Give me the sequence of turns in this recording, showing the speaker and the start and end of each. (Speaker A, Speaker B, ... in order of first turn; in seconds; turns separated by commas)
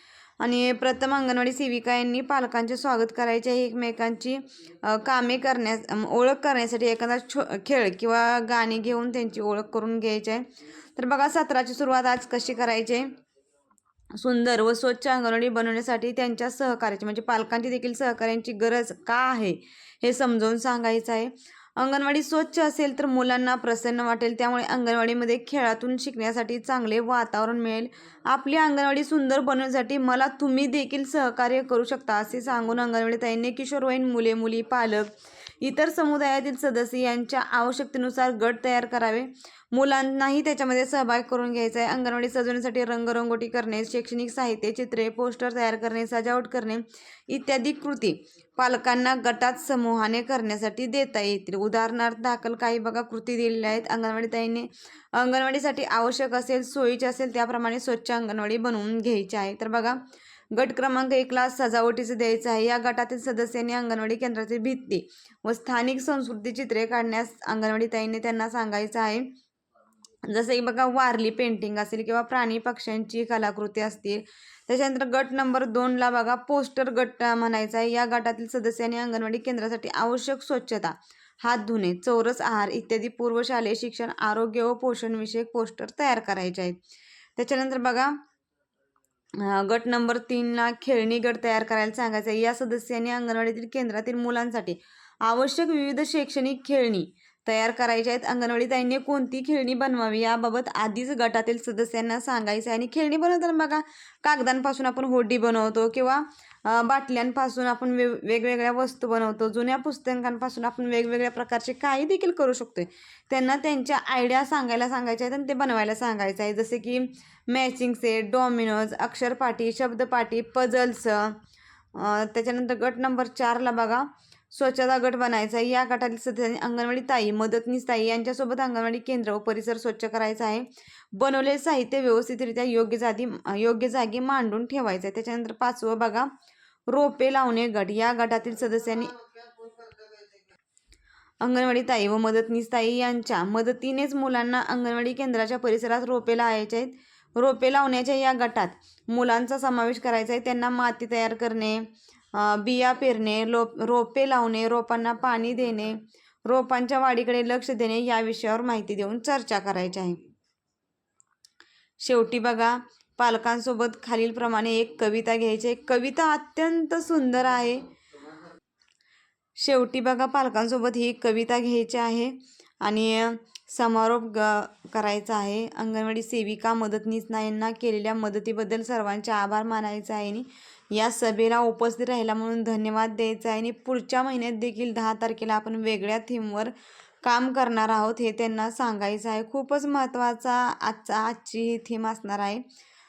Speaker A: 0.4-13.1, Speaker A: 14.1-69.3, Speaker A: 70.2-86.8, Speaker A: 87.4-88.2, Speaker A: 89.3-121.4, Speaker A: 121.9-136.3, Speaker A: 136.9-139.3, Speaker A: 141.4-160.2, Speaker A: 162.0-167.9, Speaker A: 169.6-192.6